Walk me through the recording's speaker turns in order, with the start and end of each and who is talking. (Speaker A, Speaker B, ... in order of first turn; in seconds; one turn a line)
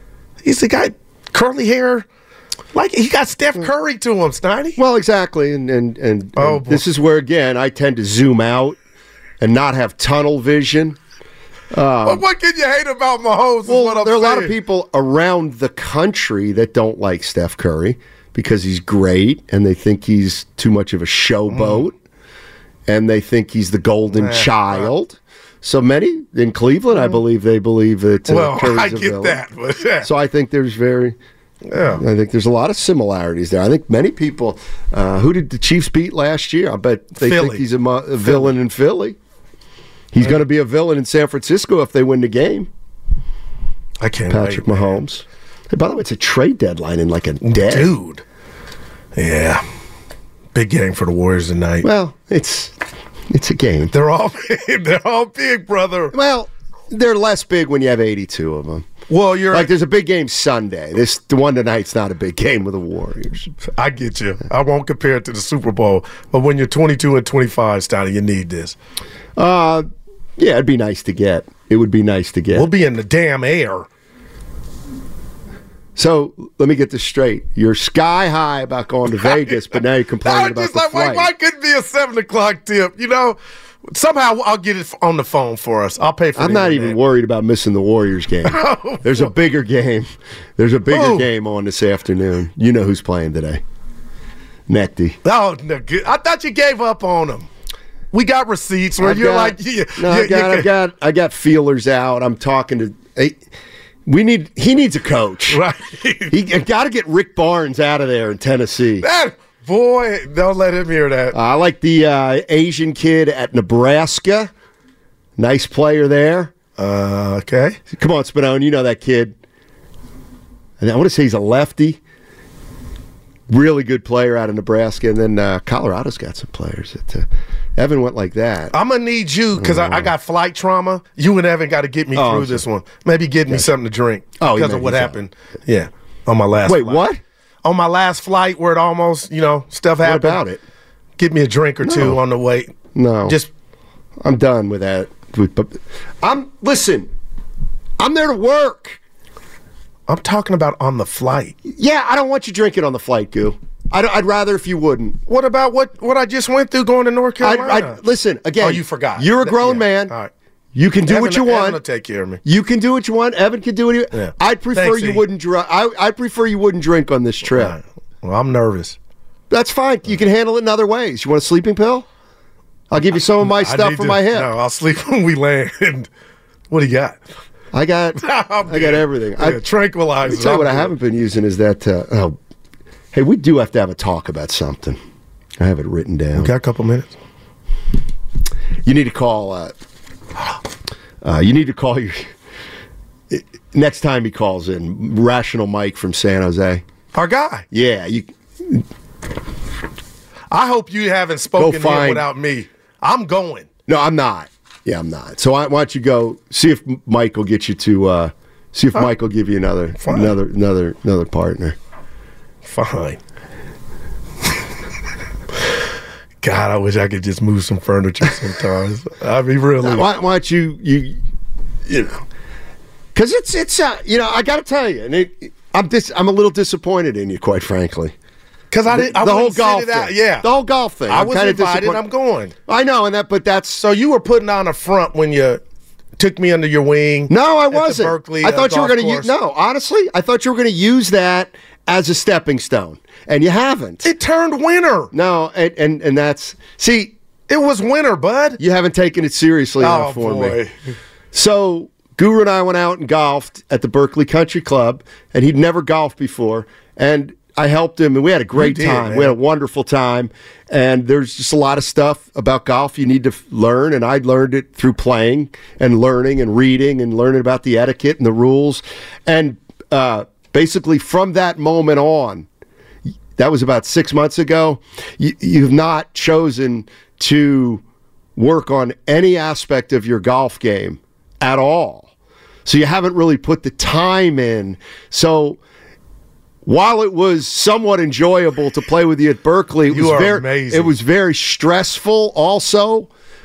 Speaker A: 0.4-2.0
Speaker A: 2.7-4.8
Speaker B: 4.8-8.8
Speaker A: 6.4-6.8
Speaker B: 9.4-11.0
Speaker B: 11.7-12.2
Speaker A: 12.0-14.5
Speaker B: 13.7-21.9
Speaker A: 21.5-21.8
Speaker B: 22.9-29.4
Speaker A: 24.1-24.9
Speaker A: 28.3-30.1
Speaker B: 30.0-31.1
Speaker A: 31.7-32.0
Speaker B: 31.9-39.2
Speaker A: 37.2-37.6
Speaker A: 38.2-38.5
Speaker B: 40.1-42.7
Speaker A: 44.0-45.0
Speaker B: 44.3-47.9
Speaker A: 47.4-48.2
Speaker A: 49.1-49.6
Speaker A: 50.5-51.9
Speaker B: 51.8-52.8
Speaker B: 53.3-53.9
Speaker A: 53.9-56.1
Speaker B: 56.1-58.9
Speaker A: 59.1-59.7
Speaker B: 59.5-63.5
Speaker A: 63.7-68.8
Speaker B: 69.3-69.8
Speaker B: 70.4-72.7
Speaker A: 72.5-73.9
Speaker B: 76.0-81.3
Speaker A: 80.2-83.4
Speaker A: 83.9-87.0
Speaker B: 86.3-93.6
Speaker A: 88.4-89.3
Speaker A: 90.9-91.3
Speaker B: 94.7-95.2
Speaker A: 95.2-97.5
Speaker A: 98.1-100.7
Speaker B: 99.0-103.4
Speaker B: 104.0-105.6
Speaker A: 105.5-106.3
Speaker B: 106.3-109.0
Speaker A: 109.0-111.3
Speaker B: 111.3-114.5
Speaker B: 115.4-116.5
Speaker A: 116.8-117.8
Speaker B: 117.9-119.3
Speaker B: 120.8-122.0
Speaker B: 123.5-128.7
Speaker A: 128.7-137.0
Speaker B: 129.6-130.1
Speaker B: 132.1-132.6
Speaker B: 134.4-135.2
Speaker B: 136.6-137.2
Speaker A: 137.6-140.4
Speaker B: 140.0-140.6
Speaker A: 141.2-142.7
Speaker B: 141.8-142.2
Speaker B: 142.9-143.4
Speaker B: 144.2-147.1
Speaker B: 148.0-149.0
Speaker A: 150.1-151.6
Speaker B: 151.7-155.2
Speaker A: 155.3-158.0
Speaker B: 157.4-160.1
Speaker A: 158.6-160.3
Speaker B: 160.7-161.8
Speaker A: 161.1-162.4
Speaker B: 162.4-167.8
Speaker A: 164.1-165.2
Speaker A: 167.5-168.9
Speaker B: 169.5-172.1
Speaker B: 172.9-174.5
Speaker A: 173.4-176.1
Speaker A: 176.7-177.2
Speaker B: 177.7-179.6
Speaker A: 178.2-180.9
Speaker B: 180.2-182.4
Speaker B: 183.1-185.0
Speaker B: 185.6-186.5
Speaker A: 186.3-187.1
Speaker B: 188.8-189.7
Speaker B: 191.2-192.3
Speaker B: 193.3-196.8
Speaker A: 197.1-197.6
Speaker B: 197.7-198.8
Speaker A: 200.5-203.7
Speaker B: 201.6-202.2
Speaker B: 203.9-211.8
Speaker A: 210.0-210.3
Speaker A: 212.6-213.2
Speaker A: 216.4-220.1
Speaker B: 219.8-221.2
Speaker B: 221.9-222.2
Speaker B: 223.1-228.1
Speaker A: 228.7-230.4
Speaker B: 228.9-232.0
Speaker A: 231.1-232.5
Speaker B: 232.7-233.8
Speaker A: 233.8-235.6
Speaker A: 236.2-239.3
Speaker B: 237.3-244.1
Speaker A: 244.0-245.1
Speaker B: 245.1-247.1
Speaker A: 247.5-248.6
Speaker B: 248.6-250.6
Speaker A: 249.8-250.7
Speaker B: 251.3-272.5
Speaker A: 258.5-259.3
Speaker B: 273.4-277.8
Speaker B: 278.4-282.1
Speaker B: 282.6-285.6
Speaker B: 286.6-293.1
Speaker A: 289.9-290.9